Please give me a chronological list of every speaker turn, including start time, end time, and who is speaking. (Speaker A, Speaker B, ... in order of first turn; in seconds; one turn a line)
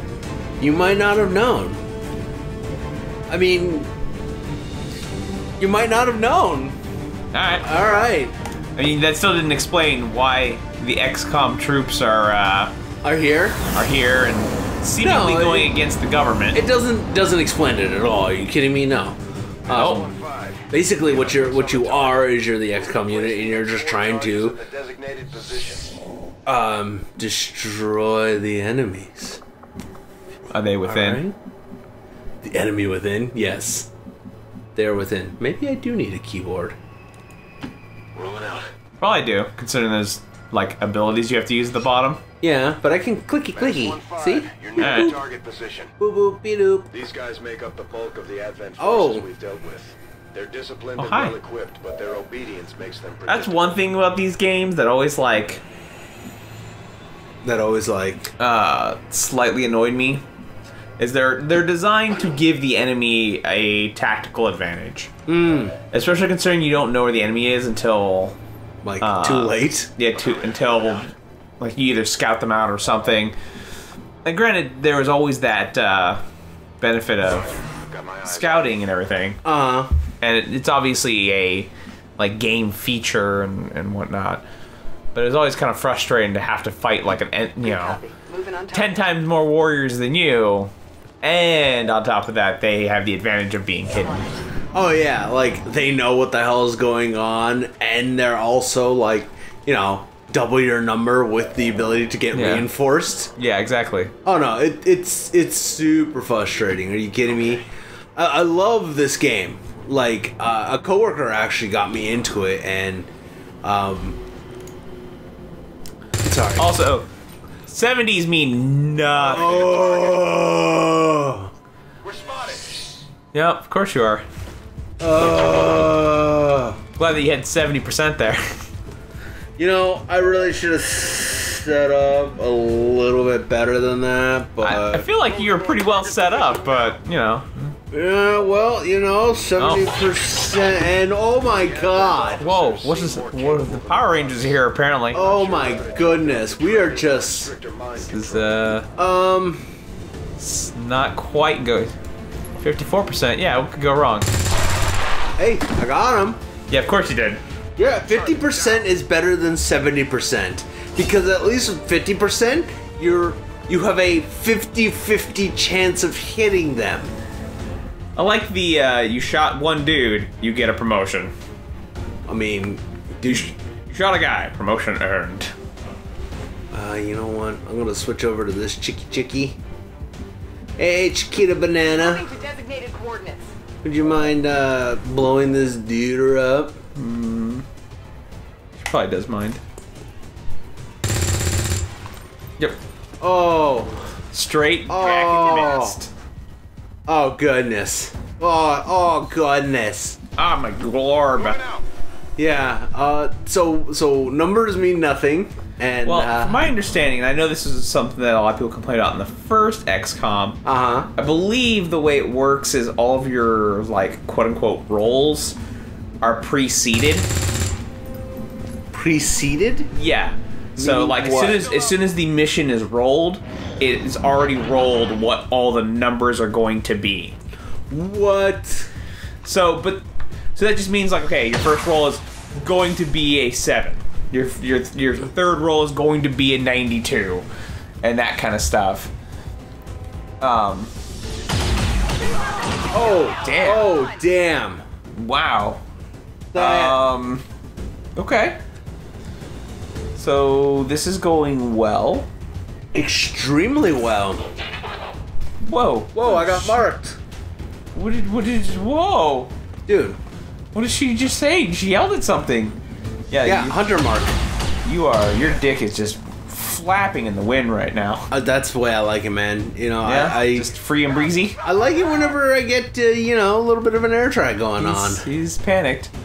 Speaker A: 0.6-1.8
Speaker A: 3.3-3.9
Speaker A: 5.6-6.8
Speaker B: 7.3-7.7
Speaker A: 7.6-8.3
Speaker B: 8.8-12.7
Speaker A: 13.0-13.6
Speaker B: 13.7-16.6
Speaker A: 15.0-15.7
Speaker A: 16.5-20.0
Speaker C: 19.7-25.9
Speaker B: 19.7-20.1
Speaker A: 20.7-24.6
Speaker A: 26.4-29.4
Speaker B: 30.5-31.2
Speaker A: 30.8-31.3
Speaker A: 32.4-33.9
Speaker A: 34.7-36.8
Speaker C: 38.1-38.7
Speaker B: 39.0-42.2
Speaker A: 42.4-45.1
Speaker C: 43.5-45.9
Speaker B: 44.8-45.2
Speaker A: 46.0-46.9
Speaker C: 46.9-53.8
Speaker A: 48.8-49.2
Speaker B: 51.0-51.4
Speaker B: 53.3-55.6
Speaker A: 57.4-58.3
Speaker B: 58.4-60.2
Speaker B: 61.0-65.1
Speaker A: 65.3-65.8
Speaker B: 65.9-68.4
Speaker A: 68.8-69.9
Speaker B: 69.0-73.3
Speaker C: 70.2-70.8
Speaker B: 74.2-76.2
Speaker B: 76.8-77.5
Speaker C: 77.6-78.8
Speaker B: 78.2-79.4
Speaker A: 79.4-79.9
Speaker B: 80.2-84.4
Speaker B: 85.1-88.0
Speaker D: 87.9-88.8
Speaker B: 88.7-90.7
Speaker B: 91.2-94.3
Speaker A: 94.7-103.3
Speaker B: 102.3-102.7
Speaker B: 103.4-104.1
Speaker A: 104.2-113.1
Speaker A: 113.6-114.2
Speaker A: 116.2-116.8
Speaker B: 116.6-117.1
Speaker B: 117.7-119.9
Speaker C: 119.2-120.2
Speaker A: 119.3-121.5
Speaker C: 122.0-122.7
Speaker B: 123.3-124.2
Speaker A: 125.0-126.8
Speaker B: 127.0-128.5
Speaker A: 129.6-135.1
Speaker B: 134.6-137.7
Speaker C: 135.1-137.0
Speaker A: 137.9-142.4
Speaker B: 139.6-139.9
Speaker C: 141.5-144.6
Speaker B: 142.4-145.2
Speaker C: 145.1-148.7
Speaker A: 145.1-147.5
Speaker B: 148.1-148.9
Speaker A: 148.9-149.7
Speaker B: 150.4-151.9
Speaker B: 152.6-154.3
Speaker A: 155.4-156.4
Speaker B: 156.7-157.4
Speaker A: 157.8-167.1
Speaker C: 158.2-158.7
Speaker B: 168.2-171.3
Speaker A: 172.2-173.6
Speaker B: 173.2-175.5
Speaker A: 176.7-179.6
Speaker A: 180.8-182.4
Speaker D: 182.1-183.5
Speaker A: 183.8-186.8
Speaker B: 186.9-187.7
Speaker B: 188.8-189.6
Speaker A: 193.2-194.0
Speaker B: 194.3-196.1
Speaker A: 194.9-196.0
Speaker A: 197.1-200.2
Speaker B: 200.4-201.6
Speaker C: 201.5-201.8
Speaker A: 202.4-206.7
Speaker B: 206.0-210.6
Speaker A: 210.6-211.1
Speaker B: 211.1-215.6
Speaker B: 216.2-217.3
Speaker A: 218.9-219.9
Speaker B: 219.9-227.3
Speaker A: 220.8-221.7
Speaker A: 227.9-228.9
Speaker B: 229.4-237.4
Speaker B: 238.0-239.1
Speaker B: 240.4-240.9
Speaker A: 242.9-244.8
Speaker B: 243.4-243.9
Speaker B: 245.1-245.8
Speaker A: 246.5-247.0
Speaker B: 246.5-247.4
Speaker B: 248.2-248.6
Speaker B: 250.1-252.3
Speaker A: 252.9-254.4
Speaker B: 255.6-256.8
Speaker A: 256.1-257.2
Speaker B: 257.9-259.5
Speaker A: 259.9-260.2
Speaker B: 260.7-262.8
Speaker B: 263.3-263.8
Speaker A: 263.4-264.4
Speaker B: 264.8-268.3
Speaker A: 268.3-270.7
Speaker B: 270.0-271.6
Speaker A: 271.6-275.2
Speaker B: 274.8-276.1